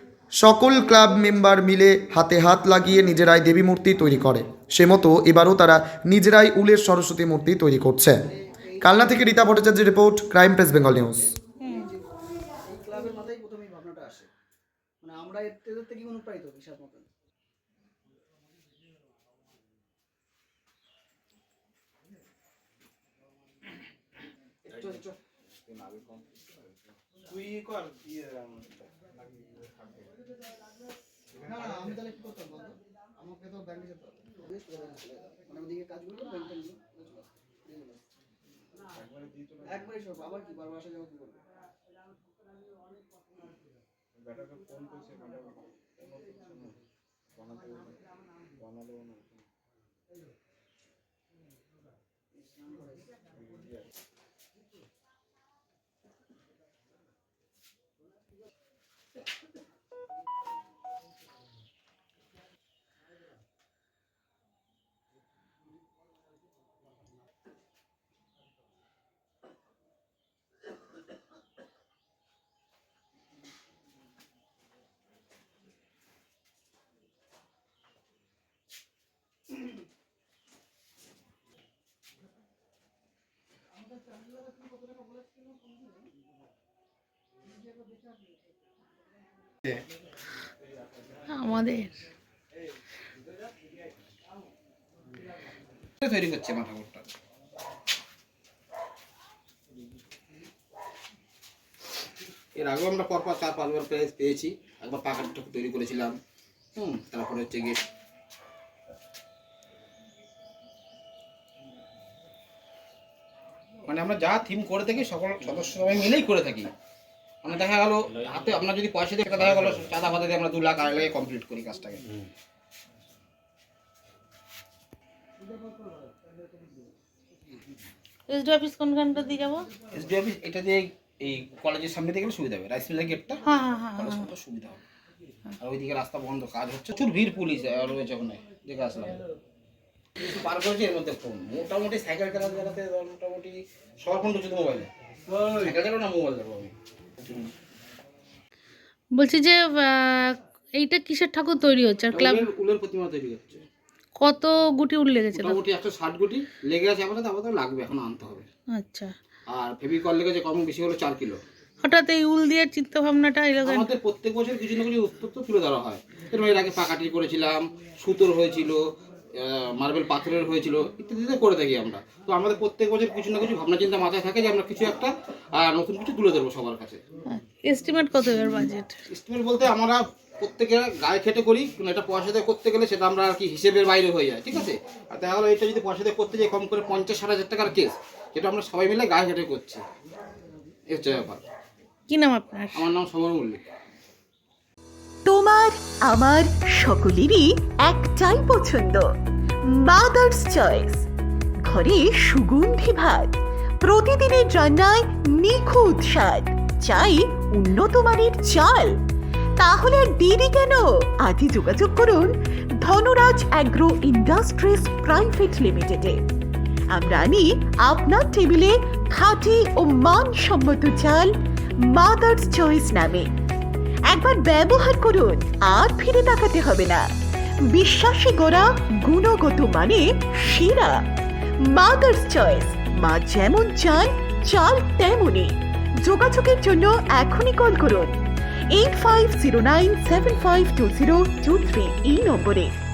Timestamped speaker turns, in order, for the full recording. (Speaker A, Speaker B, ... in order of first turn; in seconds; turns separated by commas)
Speaker A: 0.4-8.2, Speaker B: 8.3-9.6, Speaker A: 8.8-11.4, Speaker B: 11.7-12.1, Speaker B: 12.7-14.3, Speaker B: 15.0-17.1, Speaker B: 24.6-25.2, Speaker C: 25.6-26.6, Speaker C: 27.2-30.1, Speaker C: 31.4-31.6, Speaker B: 31.4-38.0, Speaker C: 39.0-39.7, Speaker B: 39.7-41.4, Speaker C: 44.2-46.8, Speaker C: 47.4-48.0, Speaker C: 48.6-49.4, Speaker B: 52.4-53.2, Speaker D: 91.3-92.0, Speaker E: 96.0-97.1, Speaker E: 102.5-106.2, Speaker E: 106.8-107.9, Speaker E: 113.9-116.7, Speaker E: 117.4-122.1, Speaker D: 128.3-129.7, Speaker E: 129.9-133.4, Speaker D: 133.5-134.2, Speaker E: 134.0-134.8, Speaker E: 135.6-139.2, Speaker E: 140.2-147.5, Speaker D: 149.1-152.5, Speaker E: 152.1-153.6, Speaker D: 154.2-155.5, Speaker E: 155.3-158.5, Speaker D: 158.7-159.1, Speaker E: 159.5-161.4, Speaker D: 161.8-163.9, Speaker E: 163.7-168.8, Speaker E: 169.4-177.0, Speaker D: 177.3-178.9, Speaker E: 179.1-189.8, Speaker E: 190.9-191.4, Speaker D: 192.1-192.9, Speaker E: 192.8-193.7, Speaker F: 195.3-199.1, Speaker F: 199.7-201.1, Speaker F: 201.7-209.0, Speaker F: 209.6-216.2, Speaker F: 216.9-223.3, Speaker F: 224.1-227.1, Speaker F: 227.7-231.0, Speaker F: 231.7-238.2, Speaker F: 238.7-242.8